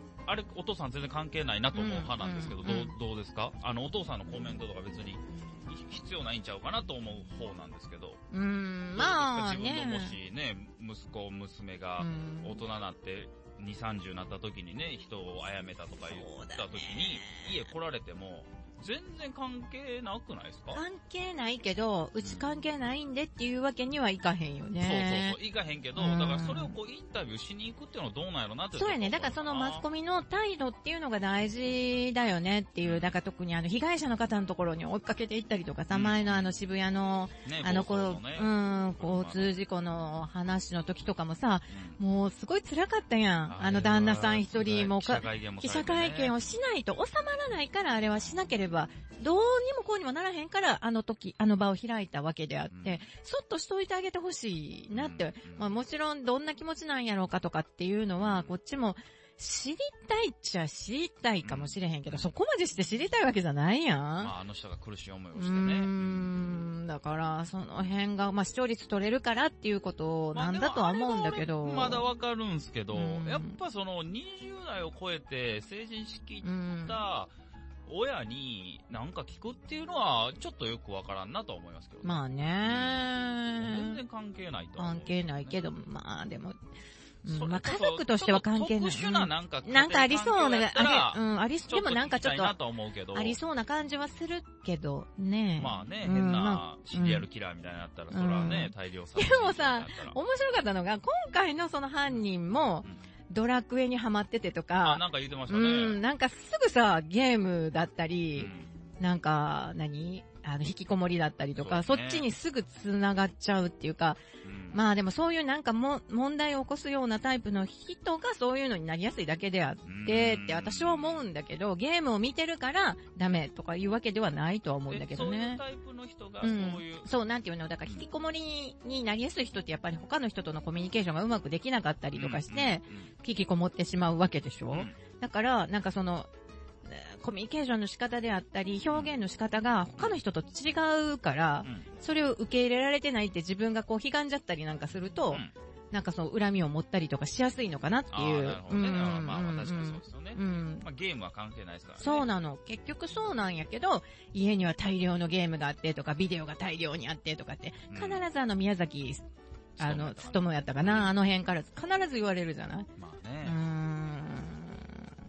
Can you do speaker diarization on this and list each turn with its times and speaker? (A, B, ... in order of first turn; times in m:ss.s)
0:00.2-0:08.2 A
0:01.7-0:02.9 B
0:08.3-0:10.1 B
0:08.9-0:20.8 A
0:12.0-0:12.6 B
0:16.1-0:17.5 B
0:20.7-0:25.4 B
0:24.8-0:29.8 A
0:26.0-0:26.8 B
0:28.8-1:04.3 B
0:32.8-0:33.1 A
0:35.9-0:36.4 A
0:37.4-0:39.5 A
0:41.7-0:42.0 A
0:43.4-0:46.4 A
0:52.7-0:53.1 A
0:54.9-0:55.7 A
0:58.2-0:58.5 A
1:01.4-1:02.3 A
1:04.2-1:06.3 A
1:05.4-1:12.1 B
1:10.3-1:17.3 A
1:12.9-1:13.6 B
1:16.4-1:17.0 B
1:17.9-1:25.6 A
1:22.0-1:24.0 B
1:24.8-1:26.6 B
1:27.2-1:32.6 B
1:27.3-1:33.4 A
1:33.1-1:37.2 B
1:35.6-1:40.2 A
1:38.1-1:54.2 B
1:44.8-1:46.0 A
1:48.4-1:48.7 A
1:51.6-1:52.3 A
1:54.4-1:54.8 A
1:54.7-2:05.6 B
1:59.9-2:01.2 A
2:04.9-2:07.1 A
2:06.4-2:16.3 B
2:12.1-2:13.1 A
2:16.9-2:30.8 B
2:28.1-2:32.3 A
2:32.0-2:39.2 B
2:37.9-2:38.2 A
2:39.8-2:41.1 A
2:39.8-2:42.9 B
2:43.0-2:43.6 A
2:43.4-2:45.1 B